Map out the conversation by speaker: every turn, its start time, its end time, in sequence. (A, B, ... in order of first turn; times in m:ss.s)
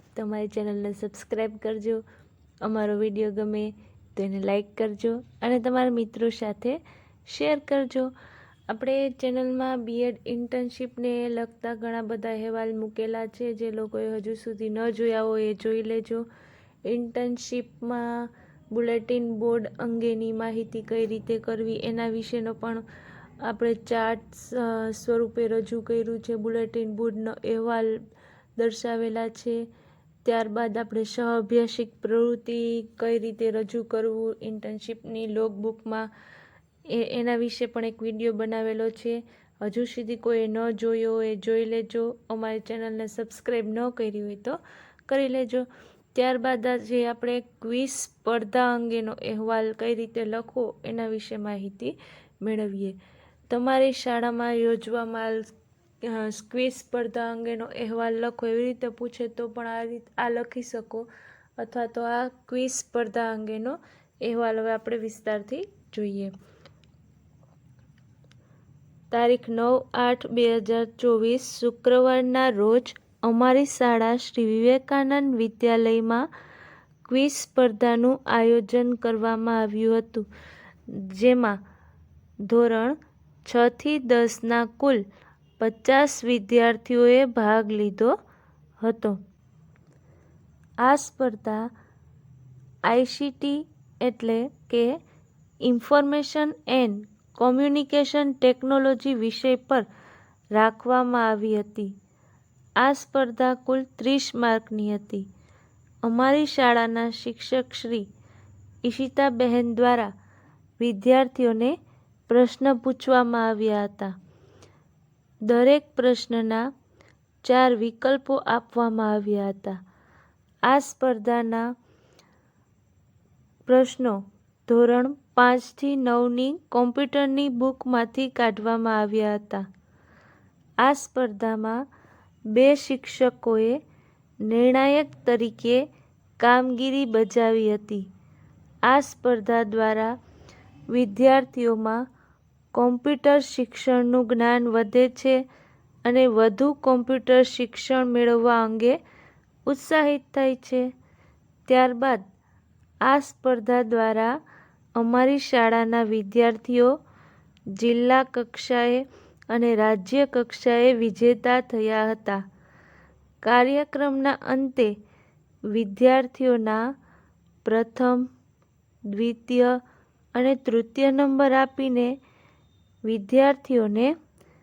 0:00.2-0:02.0 A
0:02.6-0:08.1 A
0:08.7-0:16.3 A
0:16.9-0:22.8 A
0:23.4-0:27.9 A
0:28.6-0:29.6 A
0:30.2-0:36.1 A
0:36.9-0:53.0 A
0:53.5-0:55.5 A
0:56.0-1:06.3 A
1:09.1-1:16.3 A
1:17.1-1:20.3 A
1:20.9-1:21.6 A
1:22.4-1:25.0 A
1:25.6-1:28.2 A
1:28.8-1:29.2 A
1:30.8-1:31.7 A
1:32.8-1:35.0 A
1:35.6-1:39.9 A
1:40.5-1:41.9 A
1:42.8-1:45.3 A
1:46.0-1:48.1 A
1:48.8-1:50.1 A
1:50.8-1:51.8 A
1:52.3-1:54.1 A
1:55.5-1:56.7 A
1:57.4-1:59.8 A
2:00.7-2:01.7 A
2:03.7-2:09.6 A
2:10.8-2:11.8 A
2:12.5-2:13.8 A
2:14.4-2:15.8 A
2:16.4-2:18.1 A
2:18.9-2:20.1 A
2:20.9-2:22.0 A
2:22.7-2:25.4 A
2:26.0-2:29.0 A
2:29.7-2:30.9 A
2:31.7-2:32.2 A
2:33.0-2:34.4 A
2:35.0-2:36.9 A
2:37.7-2:42.4 A
2:43.4-2:44.9 A
2:45.7-2:46.8 A
2:47.6-2:48.3 A
2:49.1-2:49.8 A
2:50.4-2:52.1 A
2:53.1-2:54.1 A